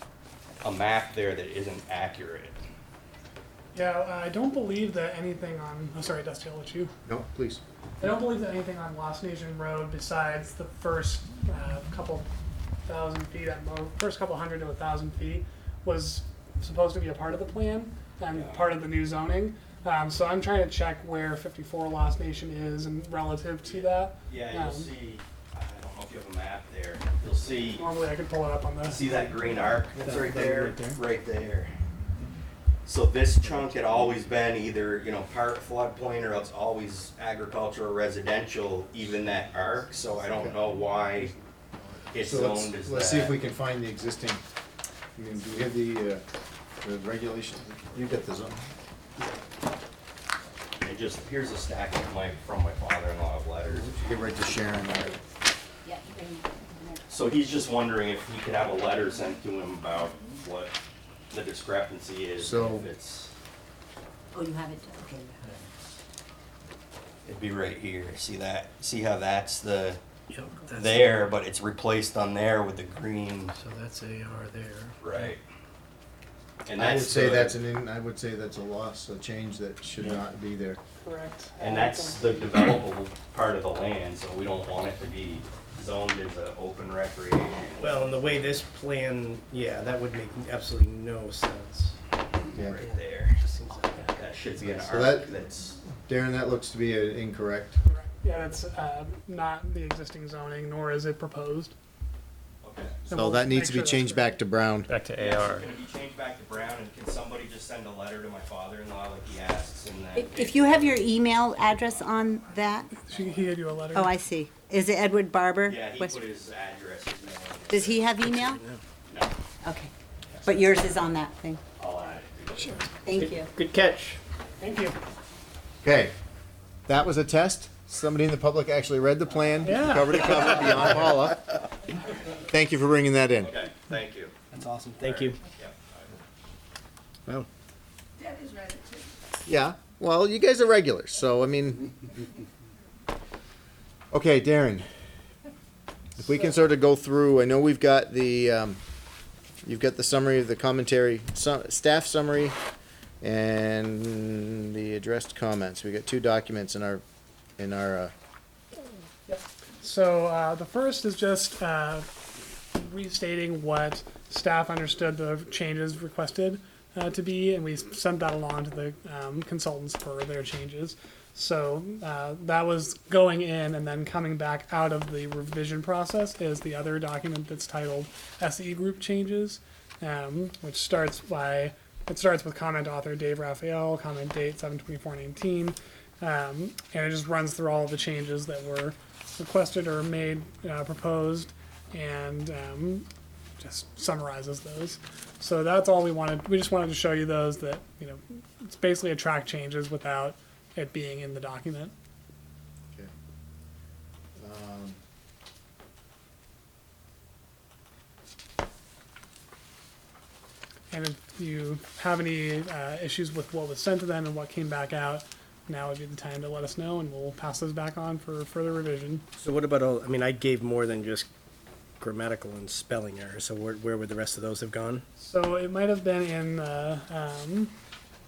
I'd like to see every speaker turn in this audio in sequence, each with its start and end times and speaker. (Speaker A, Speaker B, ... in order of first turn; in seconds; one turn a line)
Speaker A: 0.6-2.6
Speaker B: 3.7-6.9
Speaker C: 7.1-7.6
Speaker B: 8.0-12.3
Speaker B: 12.9-24.9
Speaker A: 18.3-18.8
Speaker A: 23.6-27.8
Speaker B: 27.8-29.1
Speaker A: 28.8-31.7
Speaker C: 30.0-31.0
Speaker A: 32.9-41.3
Speaker C: 40.3-40.6
Speaker A: 42.1-43.4
Speaker C: 42.2-44.4
Speaker C: 45.2-46.2
Speaker C: 46.8-48.6
Speaker A: 50.8-54.0
Speaker C: 53.9-55.2
Speaker D: 55.8-57.0
Speaker A: 57.1-60.8
Speaker A: 61.3-63.3
Speaker C: 62.4-62.9
Speaker D: 64.3-65.5
Speaker A: 67.2-70.0
Speaker E: 70.3-71.2
Speaker A: 70.7-73.5
Speaker E: 73.5-75.2
Speaker A: 75.0-75.4
Speaker A: 76.7-77.6
Speaker C: 76.8-80.8
Speaker B: 81.0-82.5
Speaker A: 81.6-88.0
Speaker E: 87.8-92.0
Speaker E: 92.5-94.4
Speaker A: 92.8-93.4
Speaker A: 94.0-95.8
Speaker C: 94.7-97.8
Speaker B: 97.9-101.7
Speaker A: 102.6-103.0
Speaker B: 103.1-104.4
Speaker C: 103.1-104.9
Speaker A: 105.1-112.1
Speaker D: 110.2-112.9
Speaker B: 113.0-114.1
Speaker D: 113.9-116.2
Speaker A: 115.7-118.1
Speaker D: 117.7-118.6
Speaker E: 118.2-118.8
Speaker D: 119.6-119.9
Speaker D: 120.5-121.6
Speaker A: 121.8-122.8
Speaker E: 122.6-124.2
Speaker D: 123.0-123.5
Speaker B: 124.6-125.0
Speaker C: 125.8-126.1
Speaker C: 126.9-131.4
Speaker B: 129.6-130.8
Speaker C: 132.5-133.5
Speaker A: 133.4-134.3
Speaker E: 134.5-135.4
Speaker A: 135.0-136.1
Speaker C: 139.5-142.1
Speaker C: 144.1-144.9
Speaker C: 146.2-148.8
Speaker C: 149.6-152.6
Speaker C: 153.2-157.0
Speaker C: 157.6-158.1
Speaker B: 159.3-162.1
Speaker B: 162.7-193.1
Speaker B: 193.6-201.9
Speaker C: 204.4-205.0
Speaker B: 210.9-219.2
Speaker E: 219.4-221.3
Speaker E: 222.0-225.0
Speaker B: 225.2-227.7